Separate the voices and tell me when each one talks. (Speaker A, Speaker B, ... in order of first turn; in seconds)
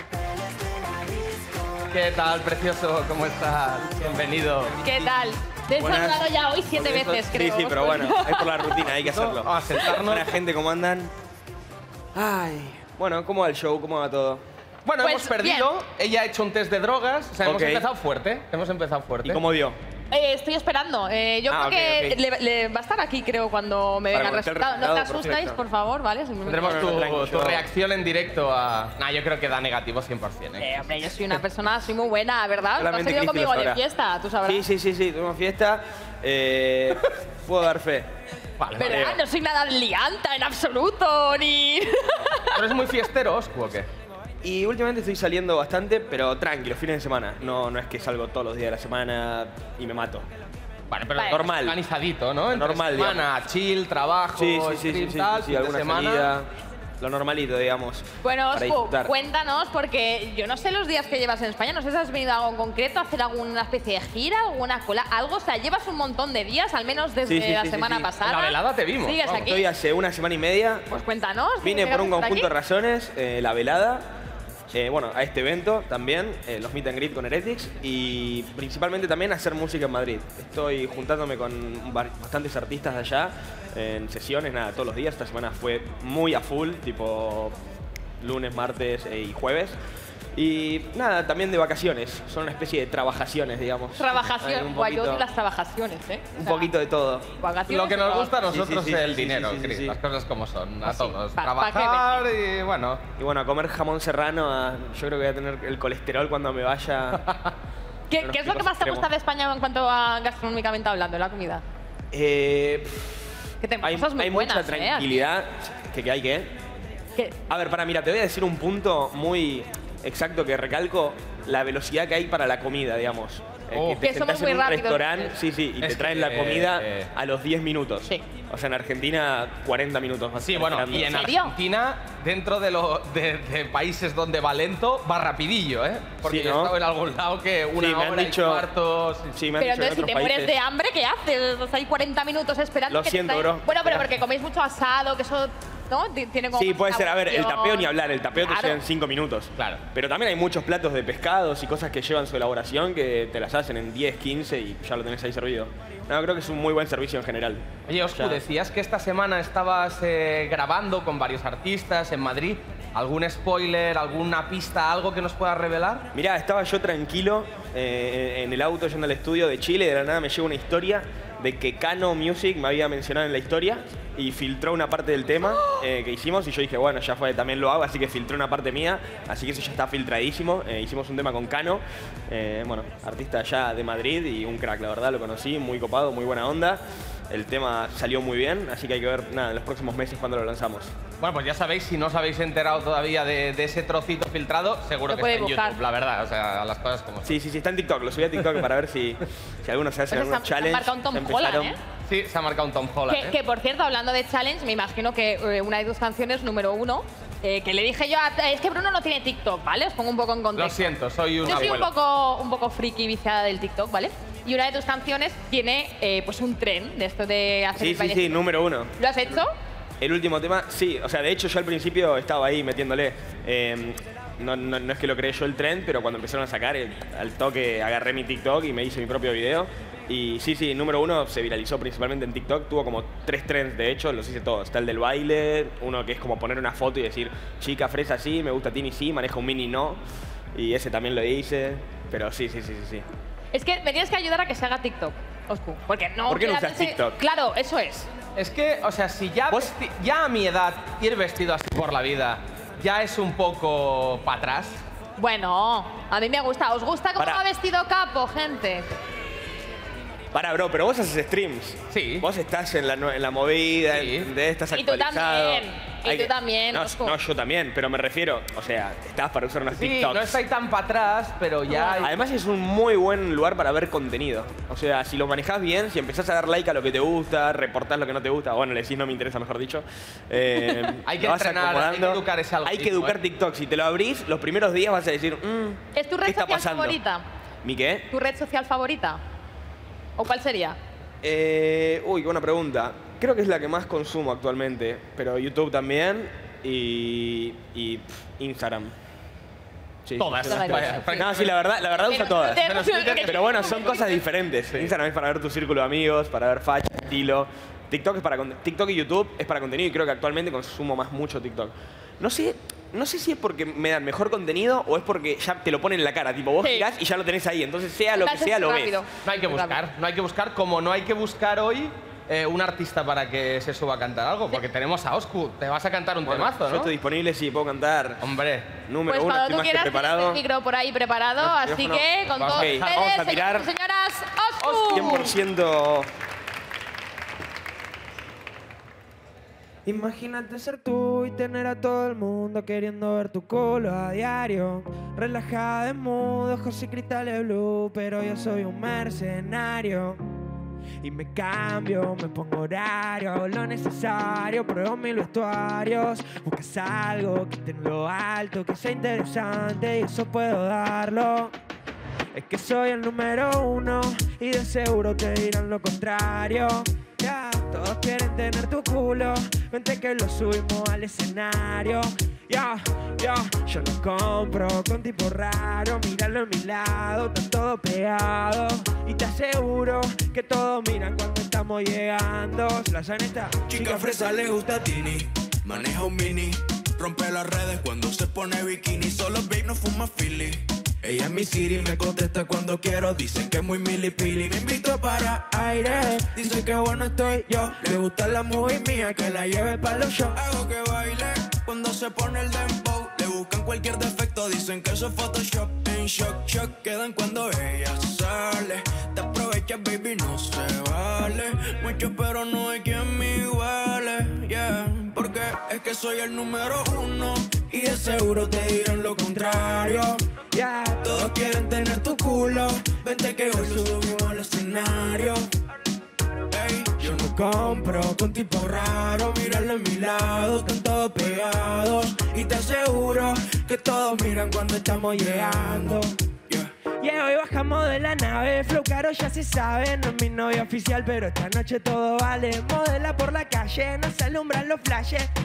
Speaker A: 1.9-5.1, 8.9-10.4, 14.8-19.4, 26.4-30.9, 38.6-39.1, 42.5-43.9, 50.9-56.3, 68.0-69.5, 97.7-103.0, 123.7-124.1, 125.8-127.1, 130.4-139.4, 149.6-149.8, 157.9-166.1, 191.2-197.4, 202.1-203.4, 210.6-211.9, 248.4-254.8, 261.9-262.3, 263.9-264.3, 269.7-272.2, 281.1-283.2, 300.2-303.9, 304.6-304.9, 319.2-326.9, 328.2-328.8, 332.4-333.2, 334.6-335.4
Speaker B: 4.8-8.8, 15.0-15.7, 20.1-27.1, 30.6-34.7, 38.8-42.6, 51.2-51.5, 58.2-69.7, 70.9-72.5, 94.0-96.7, 97.4-98.4, 100.8-102.2, 108.1-111.6, 113.6-115.1, 124.0-125.4, 130.9-131.5, 139.6-148.8, 195.1-195.8, 200.1-201.8, 203.1-219.5, 243.5-248.1, 255.2-258.9, 264.7-267.2, 271.7-272.2, 285.9-287.2, 288.1-289.2, 290.2-290.8, 300.4-301.4, 302.0-304.3, 316.6-316.9, 318.1-319.8, 329.1-335.4
Speaker C: 5.8-11.1, 12.2-14.4, 17.4-17.9, 19.2-19.8, 21.5-22.2, 24.1-25.6, 26.6-27.6, 32.8-33.8, 34.4-38.1, 38.8-39.2, 44.4-50.3, 51.2-51.8, 52.5-53.2, 54.3-56.5, 57.0-59.1, 67.3-68.0, 69.5-70.8, 71.6-74.1, 74.7-87.6, 88.2-89.8, 90.3-95.2, 96.4-97.3, 98.4-100.0, 103.2-107.2, 108.2-109.1, 112.1-113.1, 113.8-116.5, 117.5-131.3, 136.2-136.8, 137.8-138.7, 139.3-140.6, 142.9-144.1, 146.5-158.4, 166.1-190.9, 197.2-201.8, 211.4-211.8, 217.8-218.9, 220.0-240.0, 240.6-243.1, 246.3-247.2, 257.2-257.4, 260.3-270.4, 272.0-287.0, 287.6-288.1, 291.2-298.9, 300.1-302.7, 303.2-319.0, 326.2-328.2, 328.8-330.4, 331.4-333.7, 334.9-336.1
Speaker D: 339.9-350.2, 351.0-361.5, 362.3-384.3, 395.9-396.2, 397.3-400.4, 420.5-422.4, 423.2-424.1, 427.0-428.3, 435.0-436.1, 437.0-445.3
Speaker E: 383.6-420.2, 421.0-425.4, 426.5-436.7